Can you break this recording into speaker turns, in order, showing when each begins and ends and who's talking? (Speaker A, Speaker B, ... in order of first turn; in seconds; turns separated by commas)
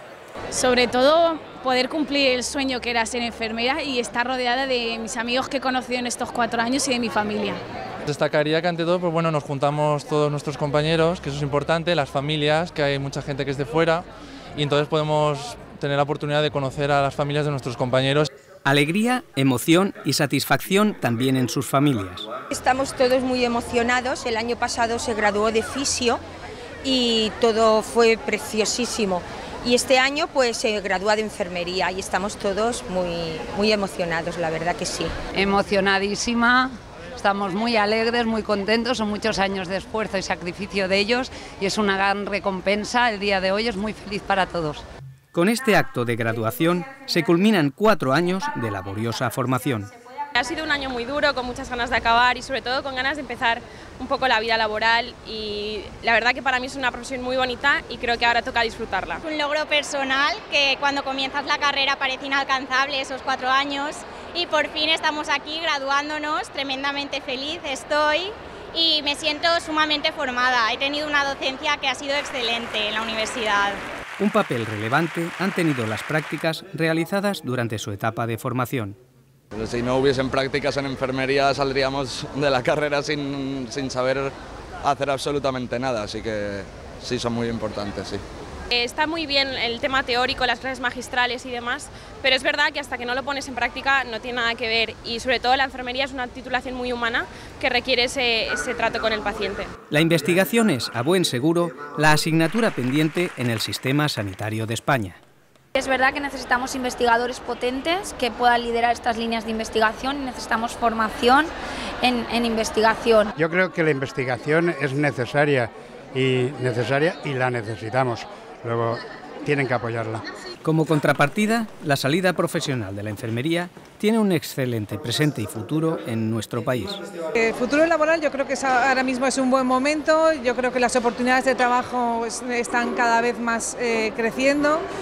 Speaker A: 0.5-7.6, Speaker B: 8.1-14.0, Speaker B: 14.6-18.3, Speaker C: 18.6-22.2, Speaker D: 22.5-26.2, Speaker D: 26.8-35.1, Speaker E: 35.4-36.6, Speaker E: 37.2-44.8, Speaker C: 45.3-49.9, Speaker F: 50.3-59.2, Speaker G: 59.2-73.8, Speaker C: 74.2-79.0, Speaker H: 79.5-84.3, Speaker H: 84.8-88.2, Speaker F: 88.7-99.7, Speaker C: 99.9-105.2, Speaker I: 105.8-111.5, Speaker I: 112.0-113.3, Speaker J: 113.3-120.2, Speaker C: 120.6-127.0, Speaker K: 127.3-134.8